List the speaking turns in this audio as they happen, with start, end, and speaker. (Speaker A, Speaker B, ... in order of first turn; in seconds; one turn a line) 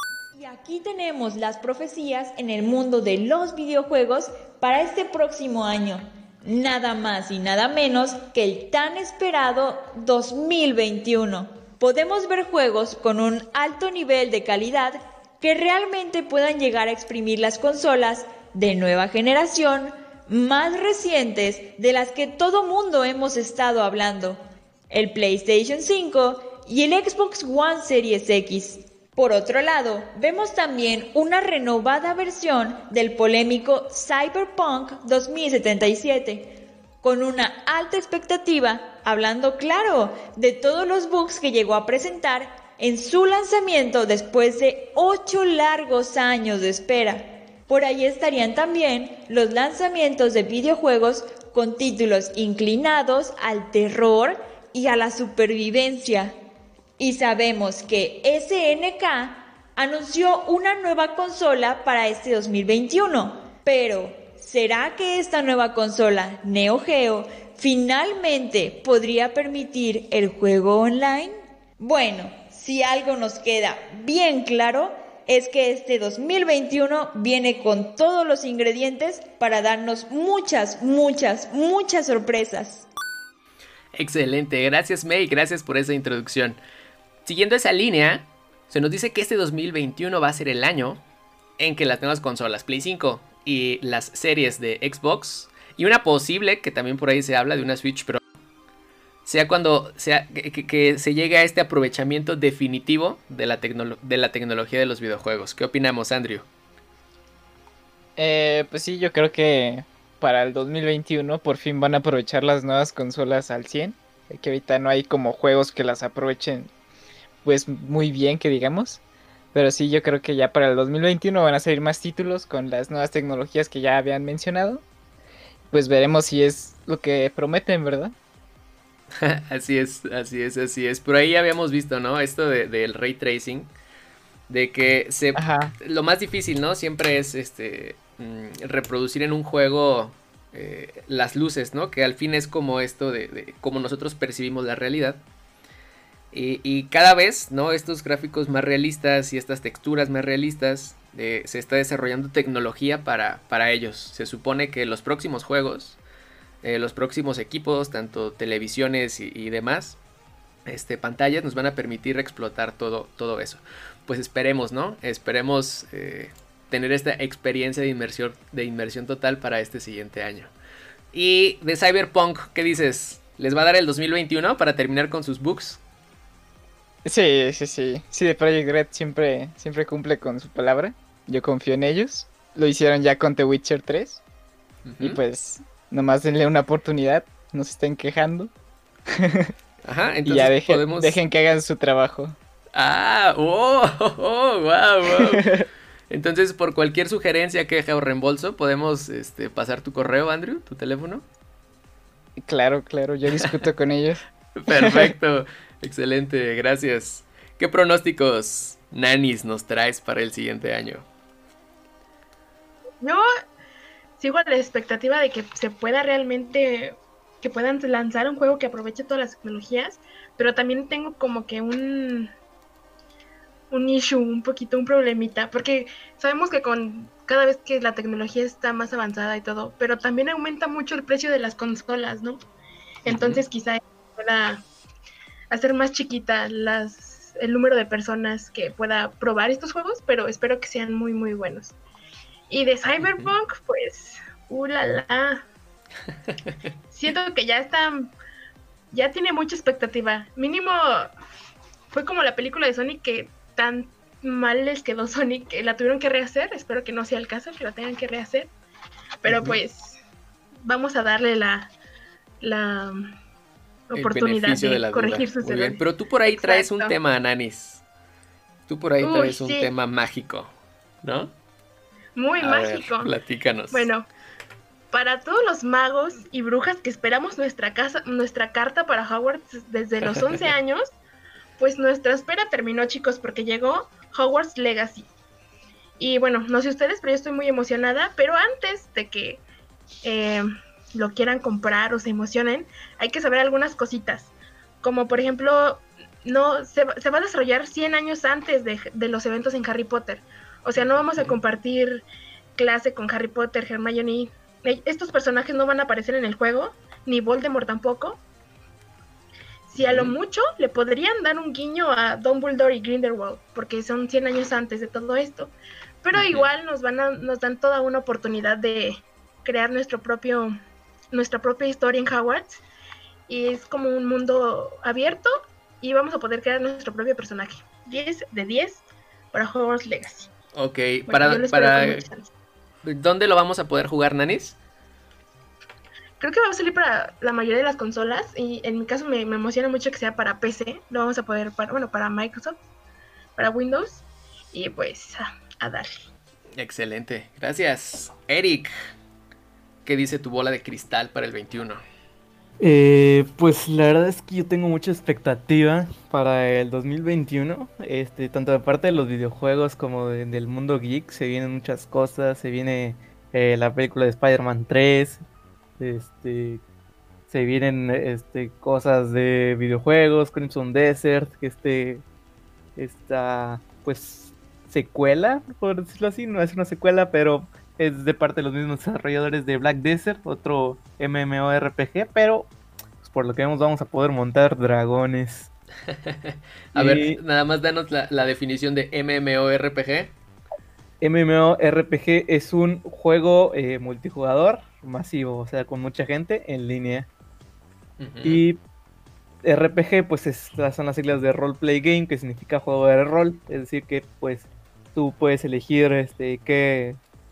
Speaker A: 0.3-56.4
Speaker A: 57.0-82.9
Speaker B: 83.9-86.6
Speaker B: 87.2-91.0
Speaker B: 91.6-98.2
Speaker B: 99.2-106.5
Speaker C: 108.2-116.7
Speaker C: 117.4-119.0
Speaker C: 119.5-124.8
Speaker C: 125.7-128.2
Speaker B: 129.2-133.7
Speaker B: 134.5-145.2
Speaker C: 135.3-135.7
Speaker B: 146.3-156.0
Speaker B: 156.6-160.0
Speaker B: 160.7-170.5
Speaker B: 171.1-175.8
Speaker C: 177.1-184.2
Speaker B: 184.8-185.2
Speaker C: 185.0-188.5
Speaker C: 189.1-189.5
Speaker B: 189.8-191.2
Speaker C: 190.2-192.4
Speaker B: 192.7-195.5
Speaker C: 195.1-195.7
Speaker B: 196.1-201.2
Speaker C: 202.4-205.1
Speaker B: 204.6-211.1
Speaker D: 214.2-222.3
Speaker D: 223.7-232.4
Speaker D: 233.0-234.6
Speaker B: 233.1-233.4
Speaker D: 235.5-241.8
Speaker D: 242.5-245.4
Speaker B: 243.0-243.3
Speaker D: 246.9-248.1
Speaker D: 248.9-251.1
Speaker D: 251.9-258.5
Speaker D: 259.2-260.0
Speaker B: 259.3-259.6
Speaker D: 260.6-261.7
Speaker D: 262.4-263.0
Speaker D: 263.9-266.9
Speaker B: 263.9-267.8
Speaker B: 268.7-270.5
Speaker D: 269.0-269.7
Speaker B: 271.0-271.3
Speaker D: 272.2-273.1
Speaker B: 272.4-273.9
Speaker D: 273.7-274.1
Speaker D: 274.9-280.9
Speaker D: 281.6-285.1
Speaker D: 286.0-289.4
Speaker D: 290.0-302.0
Speaker D: 302.6-308.2
Speaker D: 309.7-320.5
Speaker B: 309.8-310.1
Speaker B: 316.1-316.5
Speaker D: 321.1-322.6
Speaker D: 323.3-330.3
Speaker B: 330.5-332.1
Speaker D: 331.1-332.3
Speaker B: 332.8-334.6
Speaker D: 336.2-342.6
Speaker D: 343.4-345.9
Speaker B: 346.6-348.7
Speaker B: 349.8-351.8
Speaker E: 352.6-365.2
Speaker E: 365.8-366.6
Speaker E: 367.3-372.0
Speaker E: 372.8-382.5
Speaker E: 383.0-385.5
Speaker B: 385.9-390.1
Speaker E: 386.7-387.2
Speaker E: 391.0-397.1
Speaker B: 398.0-398.4
Speaker E: 398.2-398.6
Speaker E: 399.4-407.0